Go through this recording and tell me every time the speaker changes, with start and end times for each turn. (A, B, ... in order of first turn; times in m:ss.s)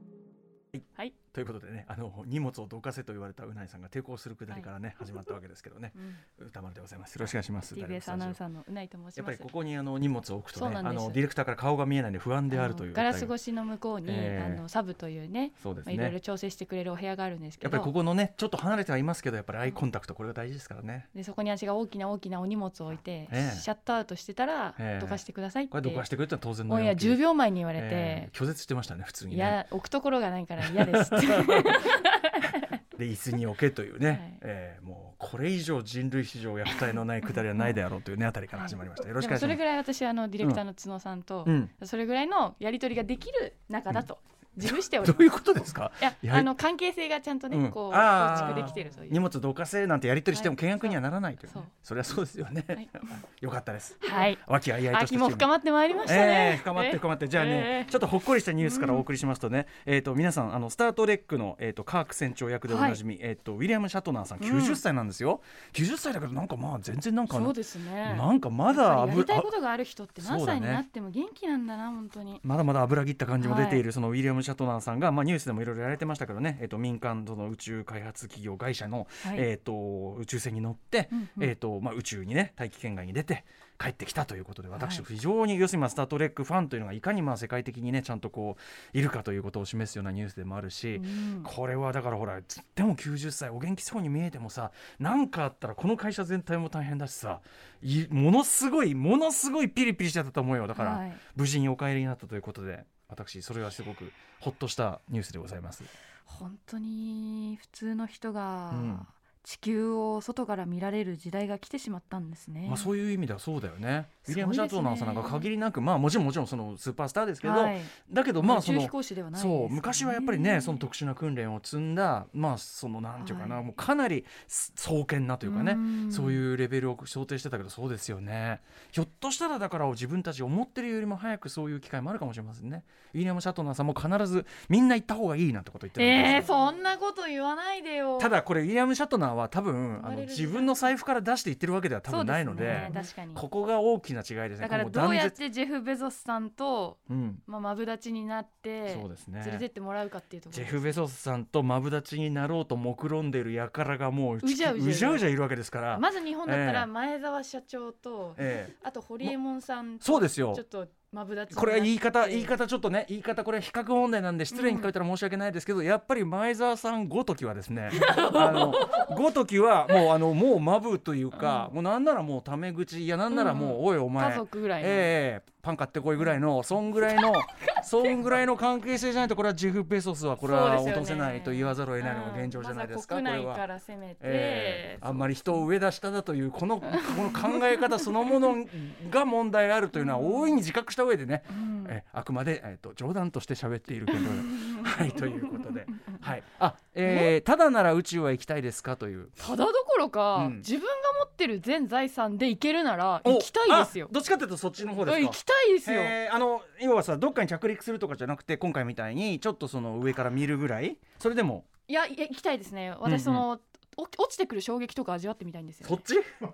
0:01.3-0:08.4 A
0:07.7-0:09.5 B
0:09.2-0:13.3 A
0:10.5-0:11.2 B
0:12.5-0:17.9 B
0:14.0-0:14.6 A
0:15.6-0:16.2 A
0:17.6-0:21.1 A
0:21.1-0:26.0 B
0:23.3-0:23.6 A
0:24.8-0:29.6 A
0:26.7-0:28.3 B
0:29.3-0:32.8 B
0:30.6-0:31.7 A
0:32.9-0:39.6 A
0:34.1-0:34.4 B
0:38.5-0:45.2 B
0:41.4-0:41.7 A
0:44.6-0:46.5 A
0:46.0-0:49.2 B
0:47.5-0:55.5 A
0:50.3-0:51.0 B
0:54.0-0:57.9 B
0:56.0-1:09.5 A
0:58.6-0:59.0 B
1:02.7-1:03.0 B
1:04.4-1:04.8 B
1:07.3-1:12.4 B
1:10.2-1:10.8 A
1:12.4-1:45.9 A
1:13.4-1:13.8 B
1:21.1-1:21.5 B
1:24.8-1:25.0 B
1:31.0-1:31.5 B
1:40.7-1:41.2 B
1:46.3-1:52.9 B
1:48.7-1:49.1 A
1:52.6-2:16.5 A
1:54.2-1:55.5 B
1:57.4-2:00.9 B
2:03.2-2:03.6 B
2:05.4-2:06.4 B
2:16.0-2:18.3 B
2:18.2-2:25.4 A
2:20.0-2:20.9 B
2:22.1-2:23.4 B
2:24.6-2:30.8 B
2:27.1-2:27.4 A
2:28.9-2:29.6 A
2:30.5-2:36.9 A
2:34.4-2:35.2 B
2:35.9-2:42.5 B
2:38.4-2:39.3 A
2:40.0-2:40.6 A
2:41.5-3:03.6 A
2:44.5-2:44.9 B
2:47.9-2:49.1 B
2:51.4-2:51.7 B
2:53.3-2:55.1 B
3:00.4-3:05.5 B
3:04.2-3:19.4 A
3:06.9-3:08.0 B
3:10.0-3:10.6 B
3:11.5-3:11.9 B
3:14.1-3:15.4 B
3:19.4-3:24.1 B
3:20.3-3:20.7 A
3:23.2-3:31.7 A
3:25.0-3:26.1 B
3:31.9-3:36.0 B
3:33.0-3:33.4 A
3:35.8-3:36.3 A